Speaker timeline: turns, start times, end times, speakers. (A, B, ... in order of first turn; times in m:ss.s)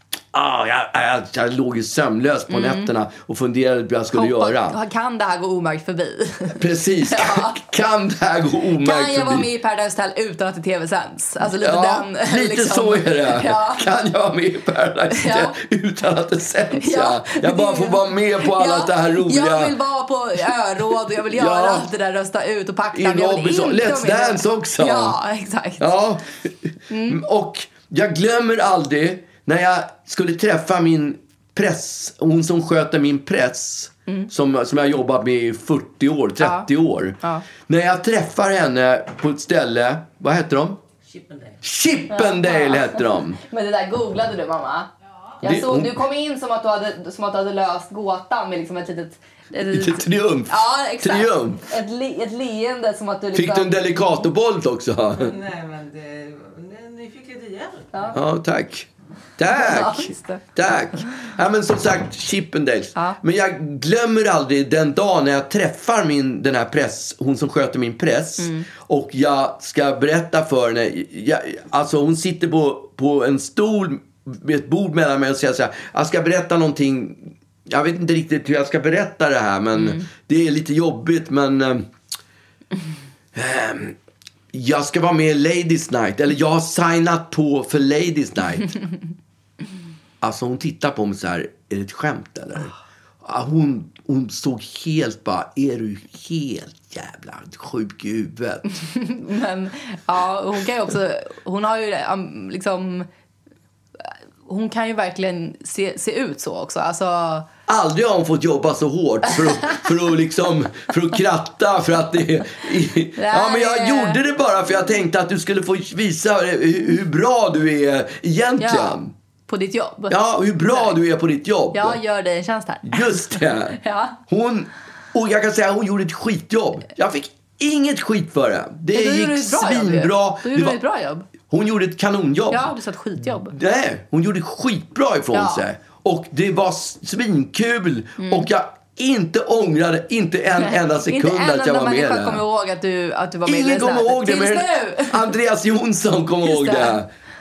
0:00.3-0:04.8 A
0:02.5-0:02.9 B
0:04.1-0:07.6 B
0:06.6-0:09.5 A
0:08.8-0:13.9 B
0:11.6-0:19.7 A
0:15.1-0:15.6 B
0:16.7-0:25.9 B
0:21.3-0:21.9 A
0:22.9-0:25.2 A
0:25.8-0:40.8 A
0:26.9-0:27.2 B
0:36.4-0:36.7 B
0:41.1-0:41.6 C
0:41.6-0:43.4 A
0:42.1-0:44.9 B
0:45.4-0:46.0 A
0:45.4-0:53.8 B
0:49.7-0:51.6 A
0:53.3-0:55.3 A
0:55.2-0:57.9 C
0:58.1-1:21.9 A
0:59.5-1:00.4 B
1:03.0-1:03.2 B
1:08.4-1:08.7 B
1:19.8-1:20.1 B
1:23.3-1:24.0 A
1:24.5-1:28.8 A
1:30.2-1:38.8 A
1:38.8-1:43.1 B
1:44.0-1:47.4 B
1:47.7-1:59.1 A
1:53.2-1:54.2 B
1:58.6-2:01.0 B
2:00.1-2:02.0 A
2:01.7-2:04.2 B
2:02.9-2:10.8 A
2:08.9-2:11.3 B
2:11.4-2:22.4 A
2:12.5-2:13.5 B
2:15.3-2:15.6 B
2:18.2-2:18.5 B
2:20.6-2:25.3 B
2:23.5-2:27.1 A
2:26.4-2:27.0 B